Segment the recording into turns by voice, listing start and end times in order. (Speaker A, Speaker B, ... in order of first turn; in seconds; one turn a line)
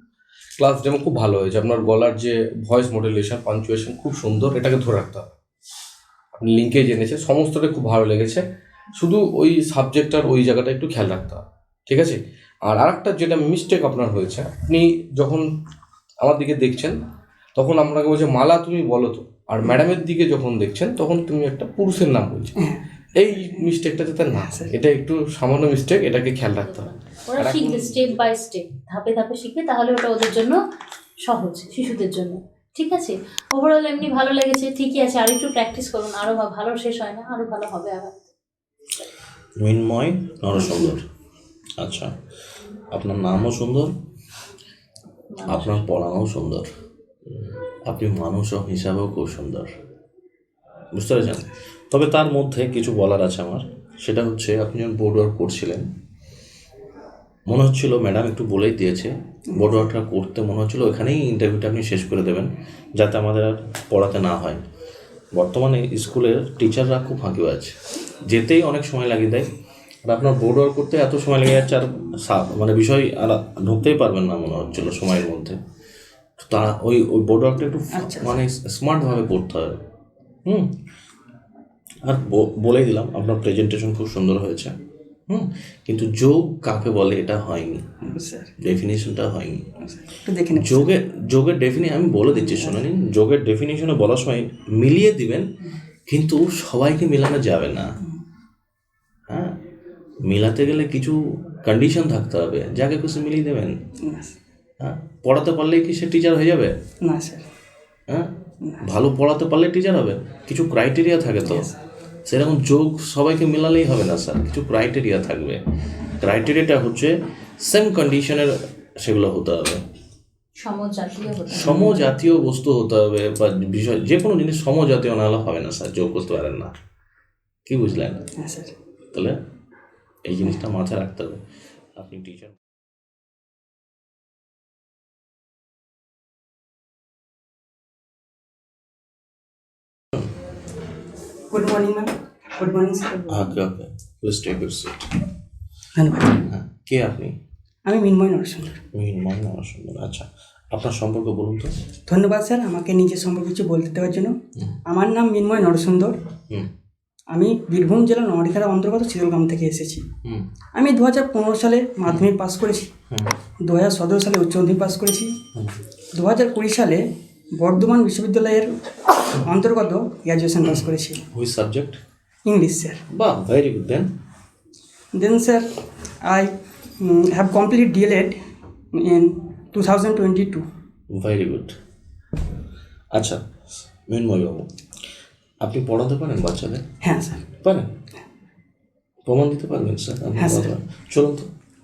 Speaker A: 0.6-5.3
Speaker A: 6.3-8.4
Speaker A: 9.0-15.5
Speaker A: 16.2-17.0
Speaker A: 17.6-22.6
Speaker A: 23.1-28.1
Speaker B: 23.4-23.6
Speaker B: 24.3-24.7
Speaker C: 26.6-30.6
Speaker C: 31.2-38.2
Speaker D: 39.6-41.0
Speaker D: 41.8-42.1
Speaker D: 42.9-43.9
Speaker C: 45.3-45.8
Speaker D: 45.5-46.7
Speaker D: 47.9-49.7
Speaker D: 50.9-55.9
Speaker D: 57.5-62.5
Speaker B: 59.5-59.9
Speaker D: 63.0-64.6
Speaker D: 65.3-67.7
Speaker D: 68.3-69.5
Speaker D: 70.0-75.6
Speaker D: 76.5-79.8
Speaker B: 77.9-78.4
Speaker D: 82.0-84.7
Speaker D: 85.3-87.8
Speaker B: 88.0-88.5
Speaker D: 88.6-89.6
Speaker B: 89.8-90.9
Speaker D: 90.5-95.4
Speaker B: 92.3-92.8
Speaker D: 96.1-97.9
Speaker D: 99.3-99.5
Speaker D: 100.3-103.7
Speaker B: 104.0-104.3
Speaker D: 104.8-106.7
Speaker B: 107.0-107.4
Speaker D: 108.8-111.7
Speaker B: 111.5-111.7
Speaker D: 112.3-115.6
Speaker D: 116.2-119.8
Speaker C: 120.6-122.1
Speaker D: 121.5-126.7
Speaker D: 127.7-128.2
Speaker B: 128.4-128.7
Speaker D: 129.1-129.4
Speaker D: 130.3-131.4
Speaker D: 132.0-132.6
Speaker B: 141.5-143.1
Speaker D: 143.3-145.1
Speaker B: 146.0-146.5
Speaker D: 146.5-147.3
Speaker B: 147.8-148.8
Speaker D: 148.9-151.7
Speaker B: 152.1-154.4
Speaker B: 154.9-156.2
Speaker B: 157.3-160.0
Speaker B: 160.7-162.9
Speaker B: 163.6-165.4
Speaker B: 166.1-168.8
Speaker B: 169.4-171.2
Speaker D: 170.7-172.0
Speaker B: 172.4-173.0
Speaker D: 173.1-174.1
Speaker B: 175.1-175.7
Speaker B: 176.2-178.4
Speaker B: 178.9-180.7
Speaker D: 181.1-181.7
Speaker D: 183.1-183.4
Speaker D: 184.1-184.7
Speaker D: 185.6-186.8
Speaker B: 187.0-187.4
Speaker D: 187.6-187.9
Speaker D: 189.3-191.5
Speaker B: 190.4-190.7